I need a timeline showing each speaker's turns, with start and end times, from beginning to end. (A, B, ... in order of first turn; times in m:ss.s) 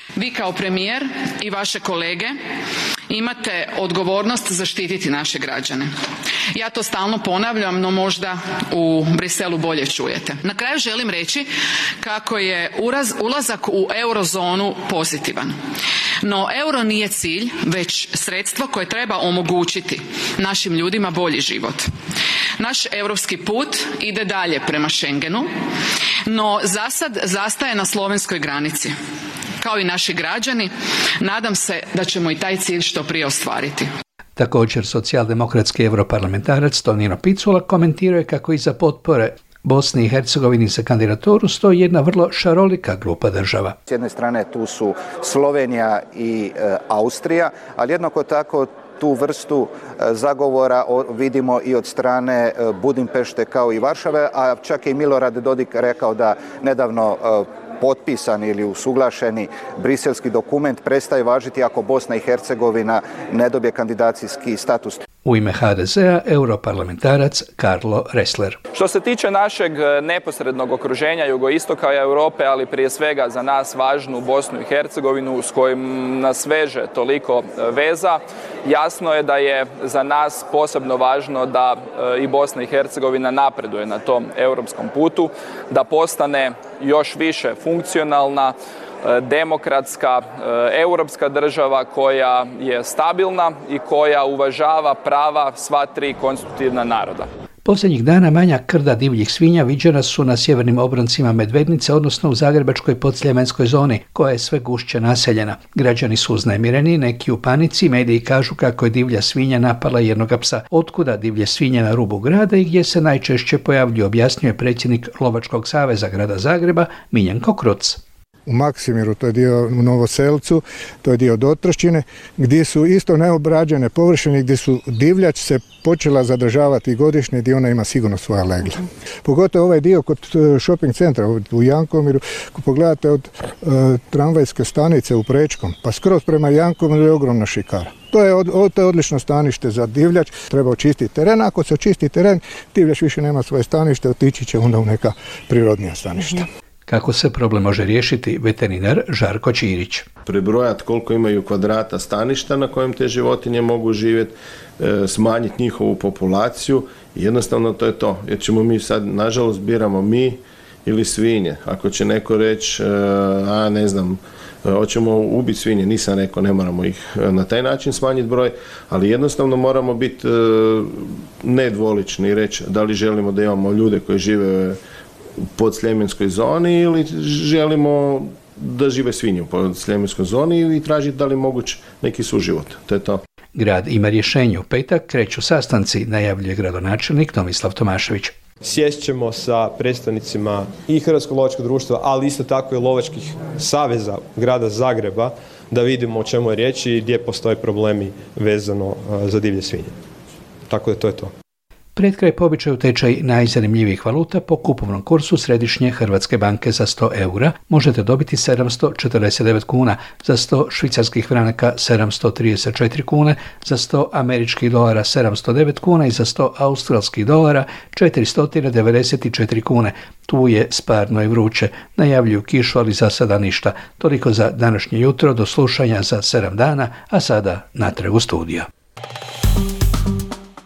0:00.2-0:02.4 A
0:03.1-0:05.9 A
0:06.5-0:11.5 A
0:12.0-0:15.5 A
0:16.2-0:21.9 A
0:22.6-0:25.5 A
0:26.2-0:28.9 A
0:29.6-0:33.9 A
0:34.4-0:43.8 B
0:43.9-1:05.0 C
1:05.2-1:08.6 B
1:08.7-1:37.3 D
1:37.6-1:58.0 B
1:58.4-2:26.4 E
2:26.9-2:30.0 B
2:30.3-2:50.9 F
2:51.4-2:54.8 F
2:55.6-3:03.2 F
3:03.6-3:08.3 B
3:08.6-3:19.9 G
3:20.7-3:21.3 G
3:22.0-3:48.7 B